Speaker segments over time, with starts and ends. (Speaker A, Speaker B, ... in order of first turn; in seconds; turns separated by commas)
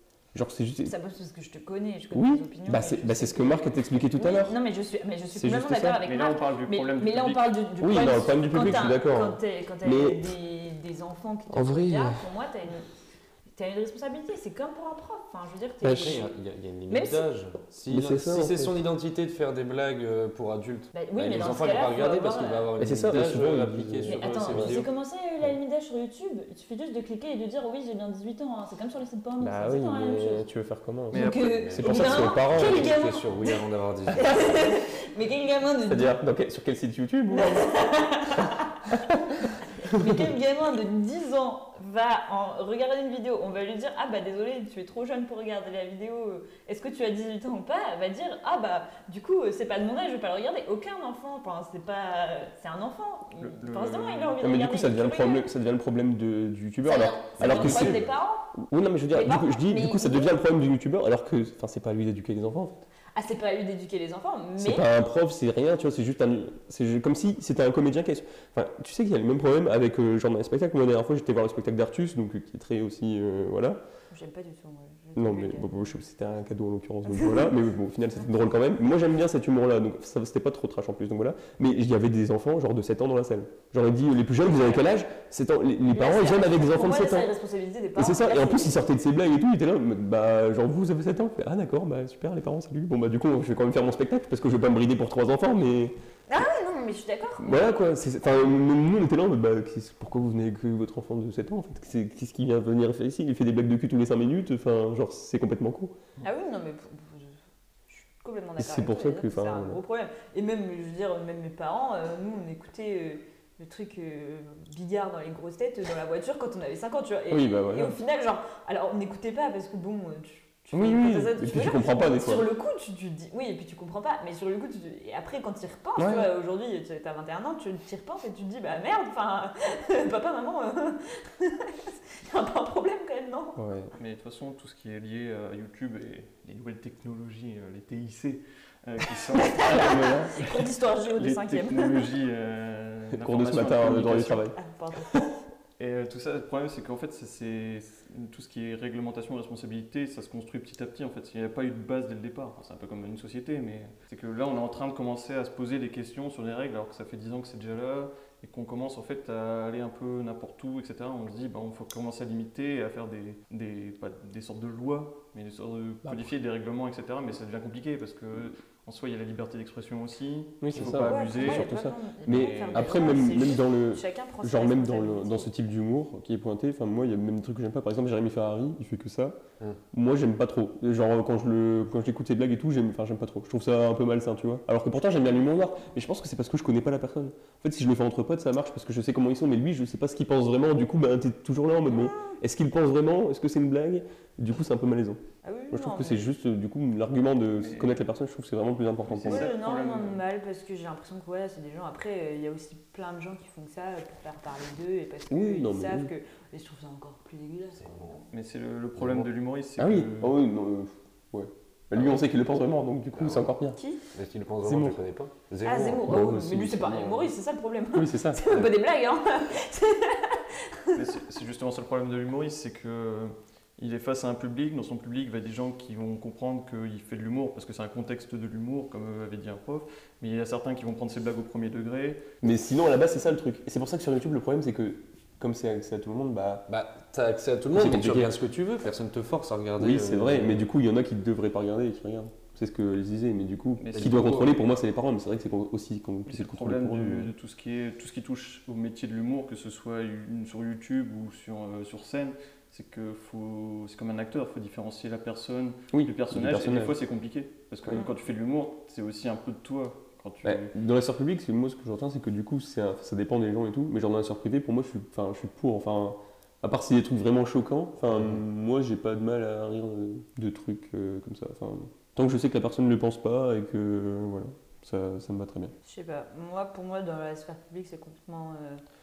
Speaker A: 0.3-0.9, Speaker B: 0.8-12.8, Speaker A: 2.1-4.6, Speaker A: 5.3-6.0, Speaker C: 6.0-7.5, Speaker A: 7.8-10.3, Speaker A: 11.5-12.3, Speaker B: 13.5-16.3, Speaker A: 15.8-16.2, Speaker D: 15.8-24.9, Speaker B: 16.9-17.2, Speaker A: 17.9-18.8, Speaker B: 20.9-22.7, Speaker A: 22.8-24.8, Speaker B: 24.1-30.4, Speaker A: 29.4-33.0, Speaker C: 31.1-31.5, Speaker B: 31.1-33.6, Speaker D: 31.3-34.7, Speaker B: 34.1-36.1, Speaker A: 35.9-37.8, Speaker B: 37.3-38.9, Speaker A: 38.4-40.3, Speaker B: 39.8-55.5, Speaker C: 53.4-54.4, Speaker A: 54.4-62.9, Speaker B: 56.8-58.5, Speaker D: 57.4-58.0, Speaker B: 59.1-60.3, Speaker B: 63.1-64.8, Speaker A: 64.6-73.8, Speaker B: 74.1-75.7, Speaker A: 75.1-87.3, Speaker B: 77.1-77.5, Speaker B: 85.9-88.8, Speaker A: 88.0-95.9, Speaker B: 96.3-97.7, Speaker A: 97.4-105.9, Speaker B: 106.2-107.3, Speaker B: 107.9-133.6, Speaker A: 108.6-109.8, Speaker A: 117.3-118.0, Speaker A: 120.7-122.5, Speaker A: 126.0-126.3, Speaker A: 133.6-133.9, Speaker C: 134.0-144.4, Speaker B: 139.4-142.1, Speaker A: 139.7-140.3, Speaker A: 143.1-145.3, Speaker B: 144.3-145.1, Speaker C: 145.8-171.7, Speaker A: 166.0-166.3, Speaker A: 170.6-179.4, Speaker B: 170.8-175.5, Speaker C: 172.2-173.4, Speaker A: 179.9-199.5, Speaker B: 191.9-192.3, Speaker B: 195.4-196.3, Speaker C: 197.6-198.0, Speaker C: 199.0-200.2, Speaker B: 199.3-207.9, Speaker A: 205.3-206.1, Speaker D: 207.8-208.2, Speaker C: 208.3-210.4, Speaker A: 209.8-213.8, Speaker B: 213.8-214.0, Speaker D: 214.1-217.2, Speaker A: 214.6-215.0, Speaker B: 215.6-221.0, Speaker A: 216.0-217.3, Speaker A: 217.9-218.7, Speaker C: 220.9-232.3, Speaker A: 232.4-236.6, Speaker D: 236.7-240.6, Speaker A: 237.7-238.3, Speaker A: 239.8-247.3, Speaker C: 243.8-244.2, Speaker D: 243.9-244.6, Speaker C: 246.2-260.7, Speaker A: 255.9-257.0, Speaker A: 260.4-275.7, Speaker B: 275.8-278.8